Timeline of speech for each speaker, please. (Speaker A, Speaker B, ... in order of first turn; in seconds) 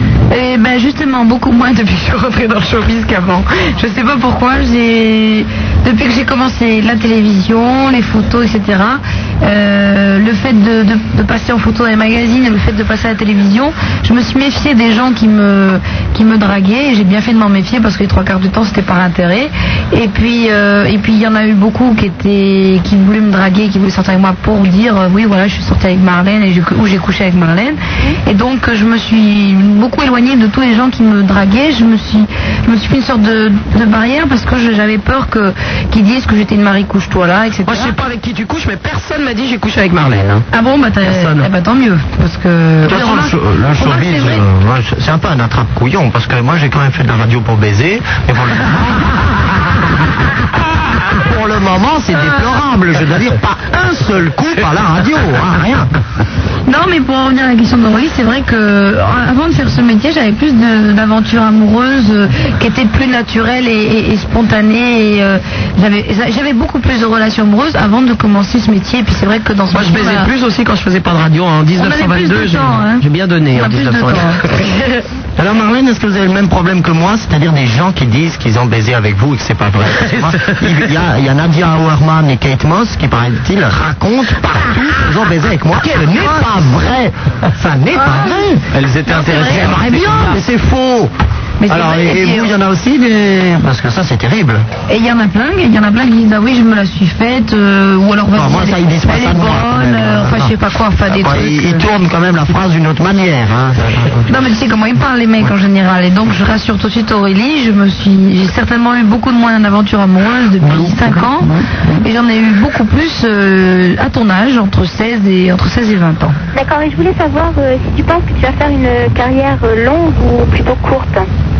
Speaker A: 0.3-37.9, 40.5-44.4, 52.2-52.4, 56.6-70.3, 71.8-74.4, 88.0-88.4, 89.1-89.6, 91.6-92.5, 94.9-101.8, 104.3-116.4
Speaker B: 37.6-40.5, 41.0-41.5, 69.7-74.8, 80.0-80.8, 85.8-86.1, 88.8-90.3
Speaker C: 42.8-55.9, 75.4-91.1, 91.7-94.7, 98.3-100.5, 101.1-104.3, 110.7-111.2
Speaker D: 116.5-121.2